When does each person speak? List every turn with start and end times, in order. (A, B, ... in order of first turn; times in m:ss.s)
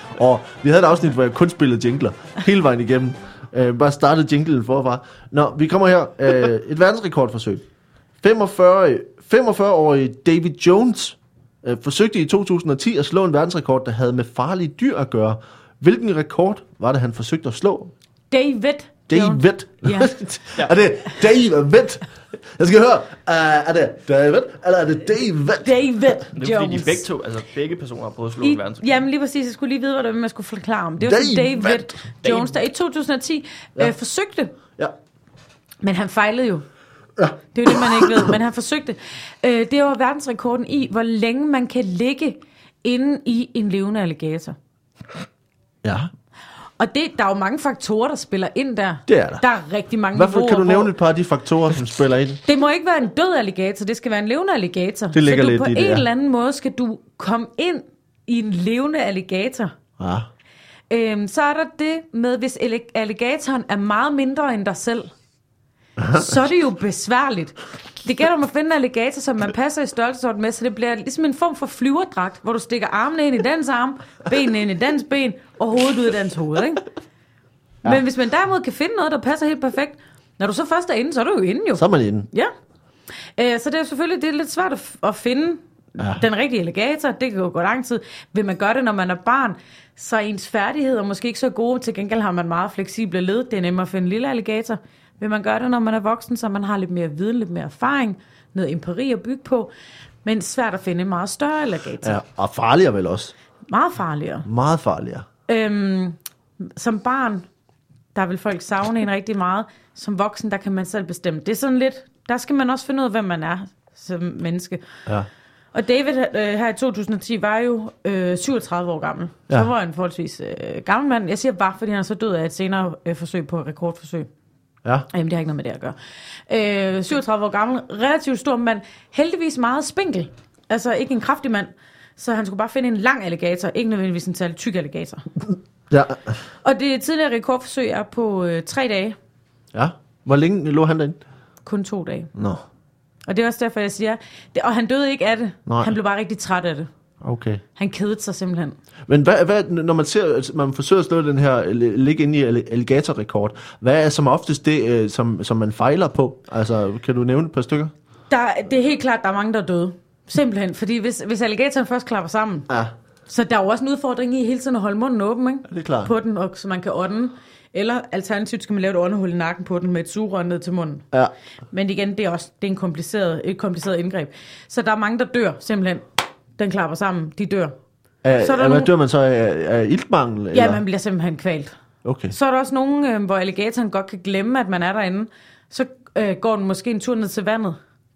0:00.1-0:07.6 A
0:08.2-0:17.9 A
0:18.3-0:20.1 B
0:19.1-0:25.8 A
0:25.6-0:27.1 B
0:26.3-0:29.0 C
0:28.4-0:34.6 B
0:31.0-0:32.1 A
0:32.2-0:32.6 C
0:35.8-0:36.6 B
0:37.2-0:38.3 A
0:37.5-0:44.6 B
0:45.8-0:46.1 A
0:46.8-0:50.9 B
0:49.1-0:49.4 A
0:50.1-0:52.4 A
0:52.4-0:59.7 B
0:55.1-0:56.0 A
1:00.0-1:00.3 A
1:00.9-1:05.1 B
1:06.0-1:06.3 A
1:06.1-1:16.8 B
1:17.8-1:22.5 B
1:21.8-1:22.3 A
1:23.4-1:39.7 B
1:26.0-1:26.2 A
1:40.2-1:42.2 B
1:42.0-1:43.3 A
1:43.7-1:44.4 B
1:44.4-1:45.2 A
1:45.5-1:47.4 B
1:48.1-1:54.8 B
1:55.7-2:04.3 B
2:05.1-2:06.0 B
2:06.5-2:15.3 B
2:15.9-2:16.3 A
2:16.6-2:19.2 B
2:19.7-2:21.2 A
2:21.6-2:22.3 B
2:22.3-2:22.6 A
2:23.2-2:26.9 B
2:25.6-2:25.9 A
2:27.2-2:27.6 A
2:27.8-2:28.8 B
2:29.1-2:37.9 A
2:38.3-2:42.7 B
2:43.3-2:51.0 B
2:45.7-2:46.1 A
2:51.7-2:57.7 B
2:58.2-3:00.8 A
2:58.4-2:58.9 B
3:00.5-3:01.7 B
3:02.0-3:02.4 A
3:02.3-3:07.8 B